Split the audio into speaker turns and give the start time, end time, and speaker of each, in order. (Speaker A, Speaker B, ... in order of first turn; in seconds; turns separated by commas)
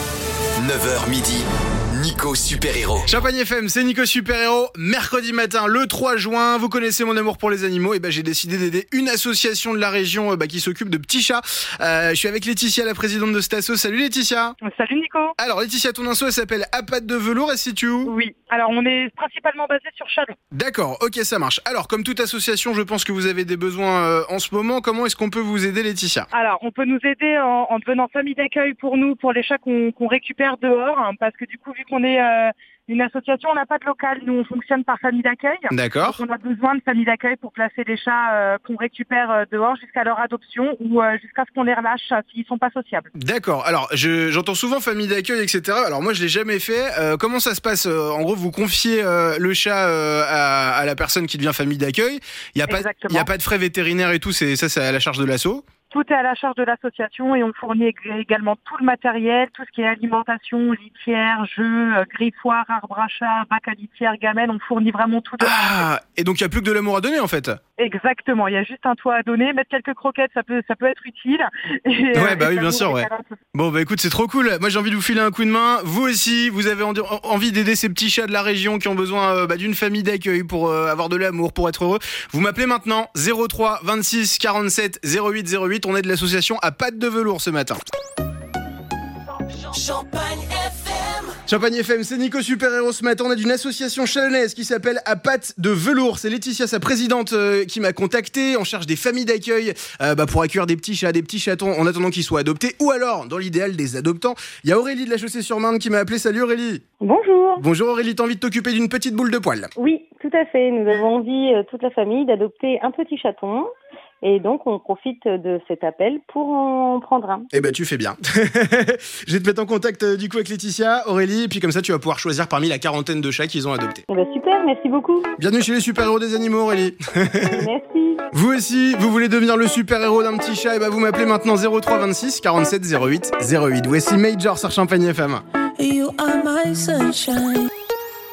Speaker A: 0.6-3.1, Speaker B: 3.1-14.6, Speaker C: 14.6-15.3, Speaker B: 15.4-18.1, Speaker C: 18.1-20.3, Speaker B: 20.5-26.3, Speaker C: 26.3-43.1, Speaker B: 35.7-36.2, Speaker B: 43.1-55.6, Speaker C: 52.7-53.3, Speaker C: 55.9-65.8, Speaker B: 65.4-67.6, Speaker C: 67.8-73.3, Speaker B: 72.2-87.8, Speaker D: 89.7-91.4, Speaker B: 91.5-106.8, Speaker E: 107.0-107.6, Speaker B: 107.6-109.7, Speaker E: 109.8-113.7, Speaker E: 114.2-117.7, Speaker B: 117.5-124.0, Speaker E: 124.1-125.3, Speaker B: 125.4-127.7, Speaker E: 127.6-128.2, Speaker B: 128.3-135.4, Speaker D: 135.8-137.7